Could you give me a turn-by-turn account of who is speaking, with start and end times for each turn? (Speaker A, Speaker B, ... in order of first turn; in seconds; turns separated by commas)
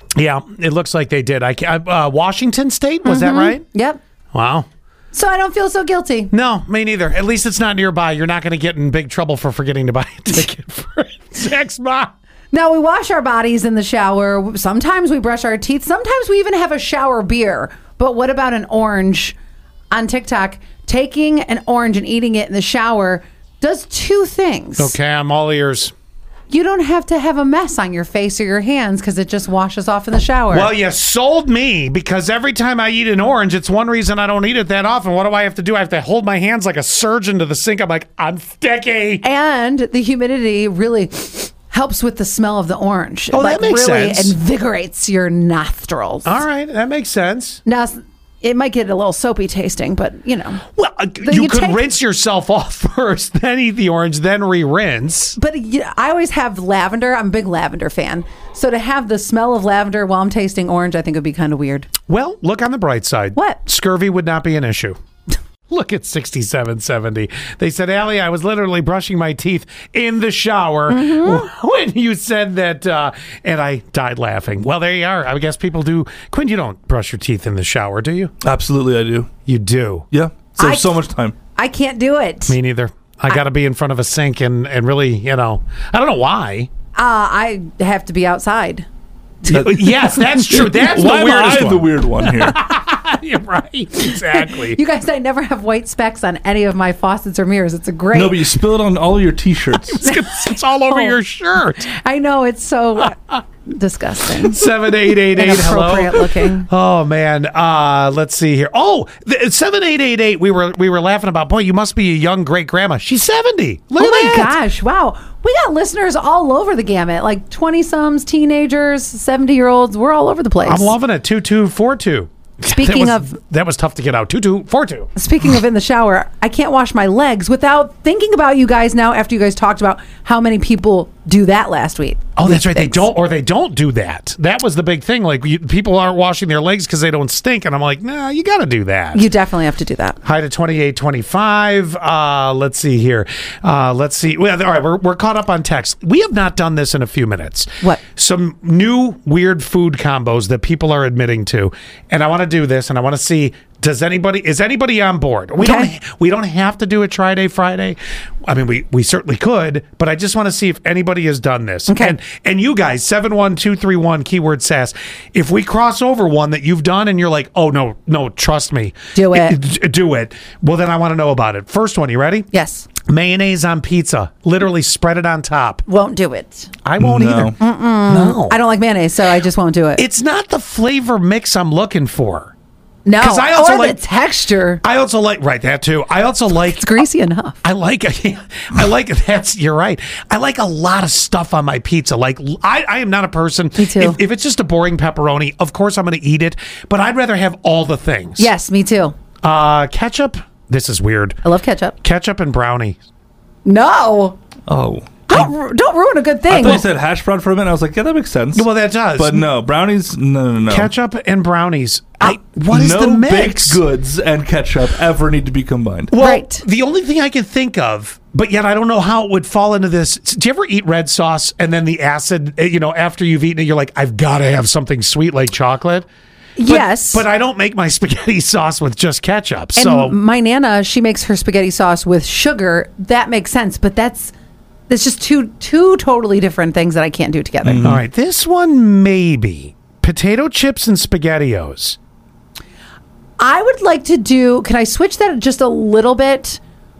Speaker A: 0.2-3.6, Speaker B: 3.0-4.0, Speaker A: 4.3-4.7, Speaker B: 5.1-6.3, Speaker A: 6.3-12.1, Speaker B: 12.5-19.4, Speaker B: 19.9-24.9, Speaker A: 24.8-25.9, Speaker B: 26.5-30.7, Speaker A: 30.5-39.2, Speaker B: 39.2-46.4, Speaker A: 43.3-44.3, Speaker A: 46.2-47.6, Speaker B: 47.6-50.6, Speaker A: 50.7-55.4, Speaker B: 51.2-51.8, Speaker B: 55.4-61.9, Speaker A: 62.1-65.0, Speaker A: 65.7-78.3, Speaker B: 70.9-71.5, Speaker C: 78.4-79.3, Speaker A: 79.5-80.1, Speaker C: 80.1-81.3, Speaker B: 80.6-82.5, Speaker A: 82.5-86.7, Speaker B: 86.9-88.8, Speaker B: 89.4-90.2, Speaker A: 89.5-94.8, Speaker C: 89.5-92.5, Speaker B: 94.1-98.6, Speaker C: 98.1-100.0, Speaker A: 99.9-101.9, Speaker B: 100.0-101.2, Speaker B: 101.9-106.7, Speaker A: 104.4-114.5, Speaker B: 114.0-120.9, Speaker A: 120.6-125.1, Speaker B: 122.7-123.3, Speaker B: 125.2-133.1, Speaker A: 132.3-139.3, Speaker B: 139.1-140.2, Speaker A: 140.2-172.5, Speaker B: 155.6-155.9, Speaker B: 161.9-162.2, Speaker B: 169.1-169.6, Speaker B: 172.5-172.9, Speaker A: 173.0-175.8, Speaker B: 175.9-176.7, Speaker A: 176.8-178.6, Speaker C: 177.0-177.6, Speaker B: 177.6-180.0, Speaker A: 180.0-182.5, Speaker B: 183.1-184.8, Speaker A: 183.2-184.0, Speaker A: 184.8-187.0, Speaker B: 186.5-187.6, Speaker A: 187.6-198.5, Speaker B: 193.8-194.2, Speaker B: 198.4-199.1, Speaker A: 199.4-201.4, Speaker B: 201.4-201.9, Speaker A: 202.0-203.0, Speaker B: 203.6-204.4, Speaker C: 204.7-205.4, Speaker B: 205.3-206.8, Speaker C: 206.5-210.9, Speaker A: 208.5-209.5, Speaker A: 210.7-213.8, Speaker C: 212.7-216.1, Speaker A: 216.1-226.1, Speaker B: 216.2-216.6, Speaker B: 226.6-227.2, Speaker A: 226.7-230.1, Speaker B: 229.8-234.3, Speaker B: 234.9-237.9, Speaker C: 237.6-238.0, Speaker A: 237.8-242.0, Speaker B: 243.4-246.6